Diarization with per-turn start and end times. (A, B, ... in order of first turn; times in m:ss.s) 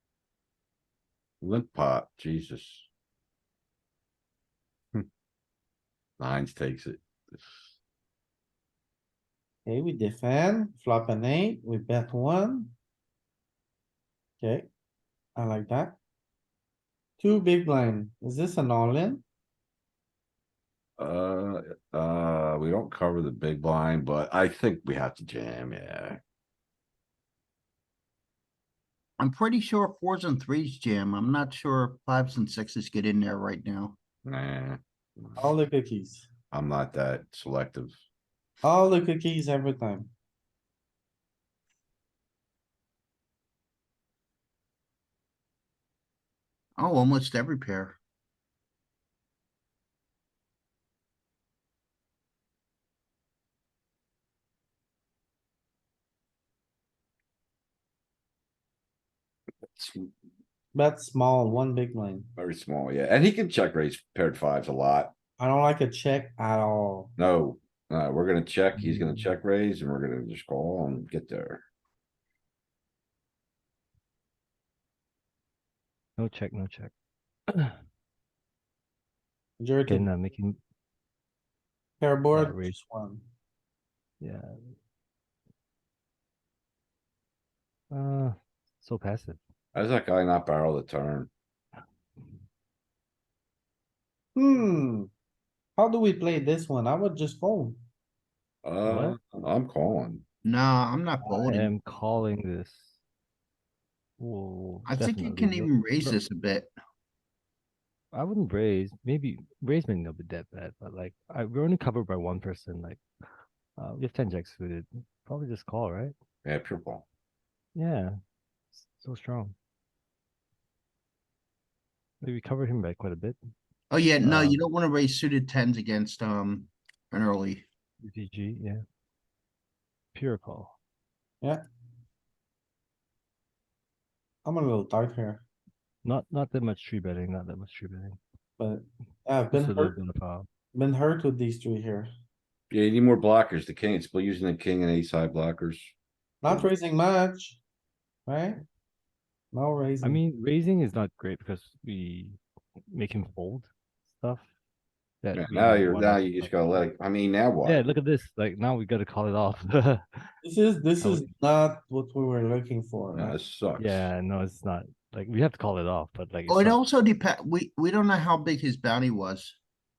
0:01.4-0:02.9 A
0:06.2-0:07.7 A
0:09.6-0:12.7 B
0:14.4-0:14.7 B
0:15.4-0:16.0 B
0:17.2-0:19.2 B
0:21.0-0:26.2 A
0:29.2-0:34.0 C
0:34.2-0:35.5 A
0:35.4-0:36.3 B
0:36.5-0:37.9 A
0:38.6-0:40.1 B
0:46.8-0:48.0 C
0:59.7-1:00.1 A
1:00.7-1:02.3 B
1:02.4-1:05.1 A
1:05.4-1:07.1 B
1:07.2-1:11.6 A
1:08.8-1:09.2 D
1:16.2-1:16.9 D
1:17.5-1:17.8 D
1:19.6-1:20.1 B
1:19.9-1:20.6 D
1:22.0-1:23.3 B
1:22.3-1:22.8 D
1:24.2-1:24.5 D
1:27.9-1:29.4 D
1:29.7-1:31.3 A
1:34.4-1:35.1 B
1:35.8-1:37.8 B
1:38.6-1:40.2 A
1:38.8-1:39.2 D
1:40.4-1:41.7 C
1:41.2-1:42.9 D
1:44.2-1:46.2 D
1:44.9-1:46.7 C
1:48.1-1:53.0 D
1:53.8-1:56.1 D
1:56.4-1:57.0 A
1:57.7-1:58.1 D
1:58.7-1:59.5 D
2:02.2-2:03.4 D
2:03.9-2:07.6 C
2:04.2-2:04.6 D
2:08.0-2:08.8 D
2:10.1-2:10.7 D
2:14.4-2:15.4 B
2:16.0-2:18.2 D
2:18.6-2:20.0 B
2:19.5-2:20.5 D
2:20.7-2:22.1 B
2:22.7-2:25.9 A
2:26.4-2:27.6 B
2:28.3-2:28.6 B
2:29.5-2:30.2 B
2:30.0-2:34.5 D
2:35.2-2:36.5 D
2:35.3-2:37.8 A
2:37.6-2:40.3 D
2:40.4-2:43.4 B
2:41.0-2:41.3 D
2:43.1-2:44.1 A
2:43.8-2:46.8 D
2:46.5-2:49.6 C